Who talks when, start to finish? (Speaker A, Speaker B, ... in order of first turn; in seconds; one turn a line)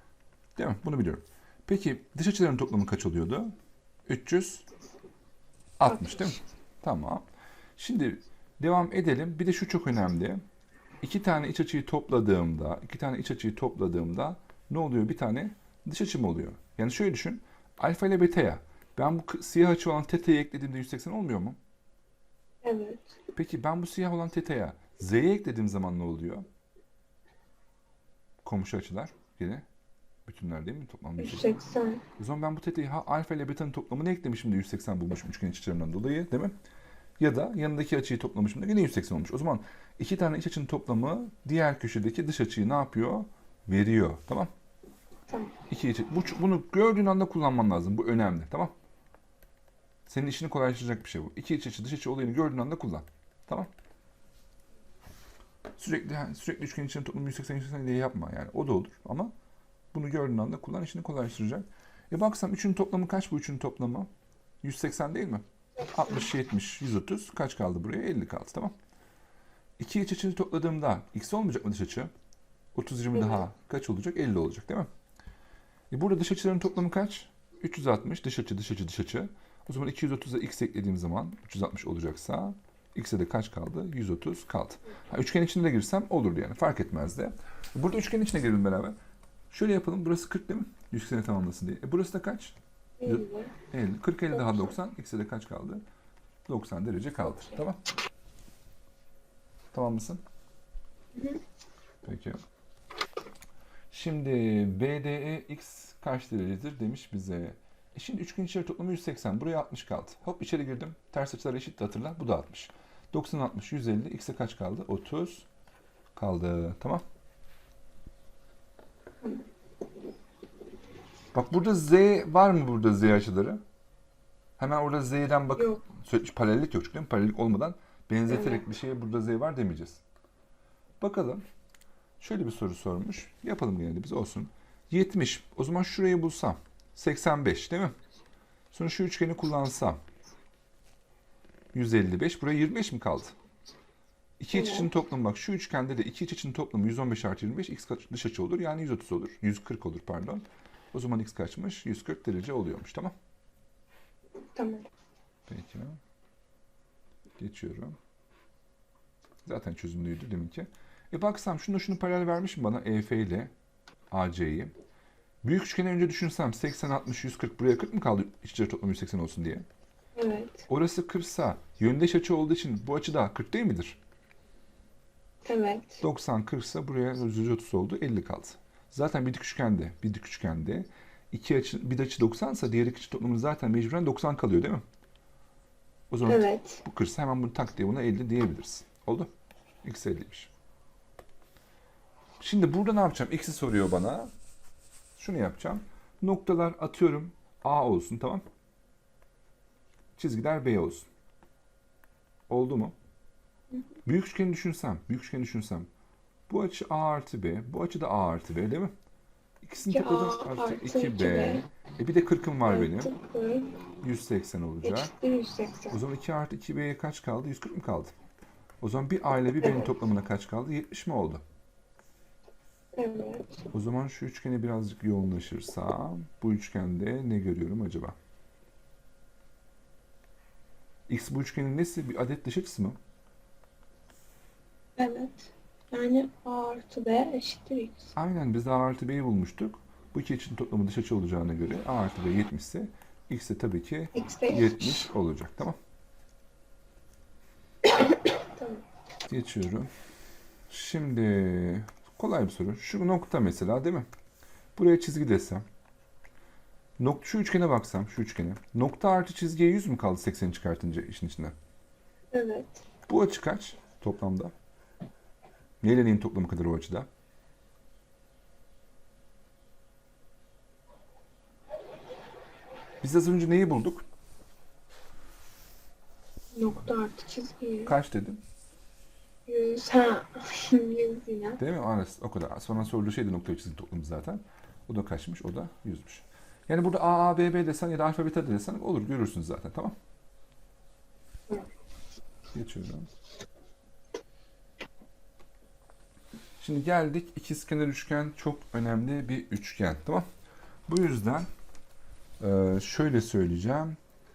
Speaker A: 0.6-3.5
Speaker A: 4.0-4.6
Speaker A: 5.8-7.2
Speaker B: 5.8-6.4
Speaker A: 7.8-10.4
Speaker A: 11.0-21.6
Speaker B: 22.6-23.2
Speaker A: 23.3-26.5
Speaker A: 28.4-29.6
Speaker A: 30.2-31.5
Speaker B: 31.2-32.0
Speaker A: 32.2-36.5
Speaker A: 37.2-44.5
Speaker B: 45.3-45.5
Speaker A: 45.7-48.7
Speaker A: 50.1-53.7
Speaker A: 55.8-59.3
Speaker A: 59.9-64.1
Speaker A: 64.6-68.7
Speaker B: 65.8-66.2
Speaker A: 69.8-72.1
Speaker A: 72.7-74.9
Speaker B: 73.1-73.4
Speaker A: 75.9-89.0
Speaker A: 89.5-95.8
Speaker B: 93.0-93.5
Speaker B: 94.3-94.7
Speaker A: 96.5-97.8
Speaker A: 99.7-100.2
Speaker B: 101.1-101.4
Speaker A: 102.0-102.4
Speaker A: 103.9-115.5
Speaker A: 116.2-117.0
Speaker A: 121.3-123.6
Speaker A: 124.6-130.0
Speaker B: 125.6-125.8
Speaker B: 128.3-128.6
Speaker A: 131.0-131.4
Speaker A: 132.2-137.9
Speaker A: 138.7-140.0
Speaker A: 141.7-143.3
Speaker A: 144.4-153.1
Speaker B: 144.5-144.9
Speaker B: 154.5-154.9
Speaker A: 155.5-156.0
Speaker A: 157.4-158.0
Speaker A: 159.4-163.5
Speaker A: 164.1-164.7
Speaker A: 165.4-169.7
Speaker B: 170.1-170.7
Speaker A: 170.7-174.0
Speaker B: 175.4-176.0
Speaker A: 176.0-184.8
Speaker A: 186.1-189.3
Speaker B: 186.2-186.8
Speaker A: 189.8-190.5
Speaker A: 192.4-194.3
Speaker A: 195.2-198.4
Speaker A: 200.2-201.1
Speaker A: 202.5-202.9
Speaker A: 204.0-205.9
Speaker A: 206.5-208.9
Speaker A: 209.6-213.1
Speaker B: 209.9-211.6
Speaker B: 212.6-213.8
Speaker A: 214.0-215.1
Speaker B: 214.8-216.0
Speaker A: 215.9-218.1
Speaker A: 218.8-221.4
Speaker B: 219.6-219.9
Speaker B: 222.9-223.7
Speaker A: 223.7-228.1
Speaker A: 231.1-233.0
Speaker B: 234.9-238.1
Speaker A: 238.2-245.8
Speaker B: 244.1-245.1
Speaker B: 247.8-248.8
Speaker A: 249.3-249.9
Speaker A: 250.7-254.1
Speaker A: 254.8-255.6
Speaker A: 257.0-261.5
Speaker B: 262.3-262.8
Speaker A: 263.1-264.5
Speaker A: 265.8-267.1
Speaker A: 273.0-274.0
Speaker B: 276.5-277.9
Speaker A: 277.8-278.4
Speaker B: 279.4-281.6
Speaker A: 281.6-289.9
Speaker A: 292.5-293.1
Speaker A: 296.6-300.2
Speaker A: 300.9-301.5
Speaker A: 302.4-304.0